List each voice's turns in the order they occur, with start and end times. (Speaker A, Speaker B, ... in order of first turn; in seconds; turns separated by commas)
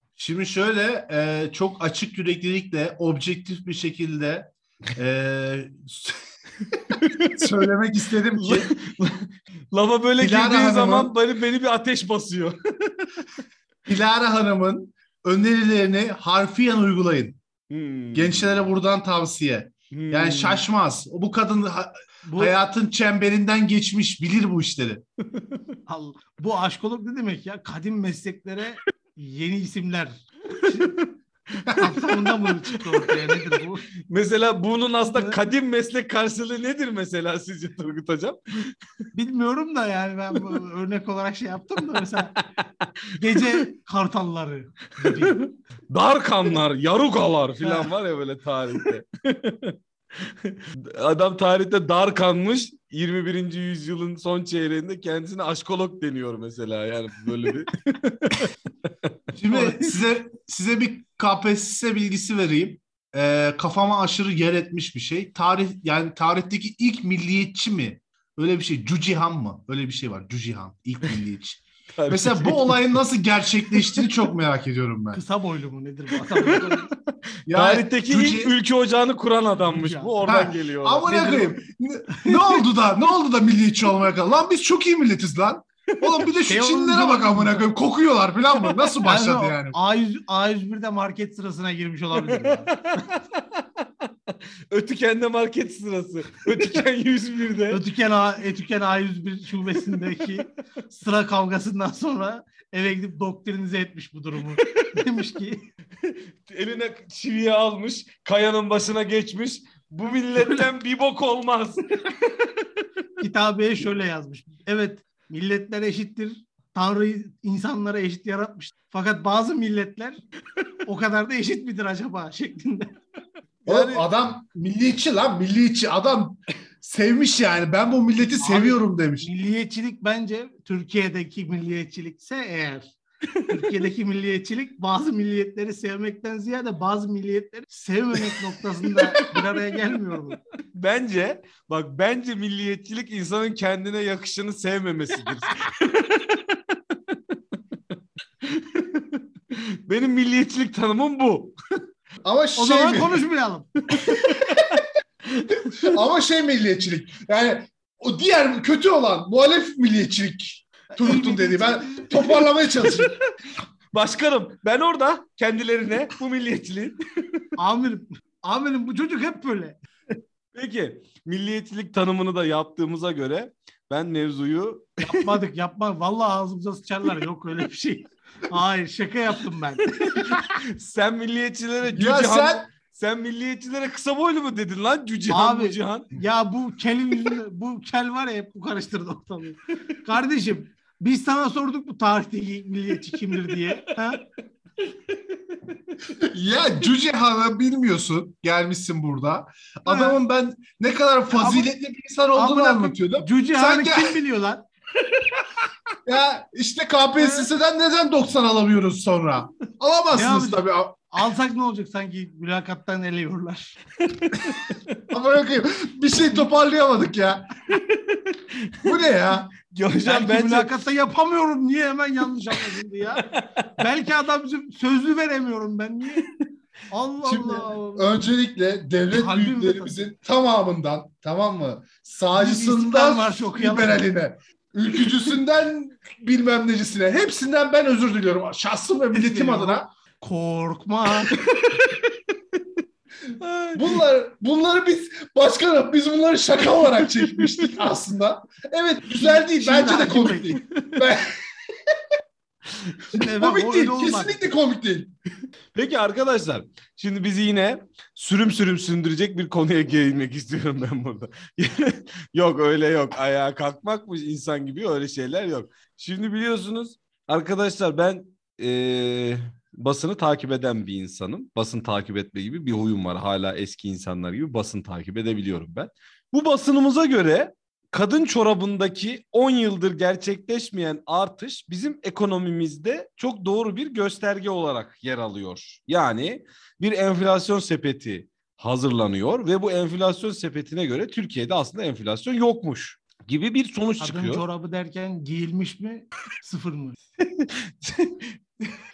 Speaker A: 0.2-6.2, Speaker B: 7.0-7.5, Speaker A: 7.0-8.7, Speaker B: 8.4-13.3, Speaker A: 10.2-11.1, Speaker A: 13.9-17.4, Speaker B: 17.7-18.7, Speaker A: 18.1-25.0, Speaker B: 19.9-20.6, Speaker C: 22.2-22.6, Speaker C: 25.9-30.9, Speaker B: 30.7-33.4, Speaker C: 31.7-33.9, Speaker B: 34.1-38.7, Speaker C: 35.0-35.4, Speaker C: 39.1-42.4, Speaker B: 42.4-43.6, Speaker C: 43.2-45.4, Speaker B: 45.0-58.5, Speaker C: 47.6-47.9, Speaker A: 59.4-75.2, Speaker C: 59.5-59.8, Speaker B: 72.0-72.9, Speaker B: 73.7-74.1, Speaker C: 75.1-76.9, Speaker B: 76.2-77.0, Speaker A: 77.5-78.5, Speaker B: 77.5-81.5, Speaker C: 79.7-80.1, Speaker A: 80.2-89.8, Speaker C: 82.1-82.4, Speaker B: 85.9-86.3, Speaker C: 86.5-87.7, Speaker C: 89.0-93.0, Speaker B: 92.2-97.8, Speaker C: 97.7-105.7, Speaker B: 104.6-104.9, Speaker B: 106.0-112.1, Speaker C: 113.2-120.2, Speaker C: 120.9-123.0, Speaker B: 123.7-124.1, Speaker A: 123.7-129.3, Speaker C: 128.2-132.9, Speaker B: 133.3-133.7, Speaker C: 133.5-140.4, Speaker B: 138.9-139.5, Speaker B: 140.8-147.2, Speaker B: 148.4-151.6, Speaker A: 152.2-153.2, Speaker C: 152.6-154.0, Speaker B: 153.9-156.0, Speaker A: 154.2-154.8, Speaker A: 155.8-163.1, Speaker C: 160.9-163.0, Speaker B: 163.9-167.4, Speaker C: 167.6-169.8, Speaker B: 170.5-175.4, Speaker C: 175.0-180.2, Speaker B: 180.0-186.1, Speaker A: 181.8-182.6, Speaker C: 185.3-194.2, Speaker B: 193.3-193.8, Speaker B: 194.9-196.1, Speaker A: 196.2-204.2, Speaker C: 199.9-200.2, Speaker C: 201.3-201.7, Speaker C: 202.3-204.7, Speaker A: 206.1-211.0, Speaker C: 207.2-207.5, Speaker C: 210.2-213.8, Speaker B: 214.2-215.0, Speaker A: 215.1-217.5, Speaker B: 217.7-219.0, Speaker A: 218.8-219.5, Speaker B: 219.6-220.8, Speaker C: 220.0-223.3, Speaker B: 223.2-223.7, Speaker C: 223.8-226.3, Speaker C: 226.9-228.2, Speaker A: 227.2-239.9, Speaker C: 229.1-230.0, Speaker C: 232.3-234.0, Speaker C: 239.1-241.8, Speaker B: 243.4-244.0, Speaker A: 243.7-251.4, Speaker B: 247.0-247.7, Speaker C: 249.2-250.6, Speaker C: 253.1-254.4, Speaker A: 253.2-255.1, Speaker B: 255.8-294.4, Speaker C: 294.0-297.0, Speaker B: 297.4-298.7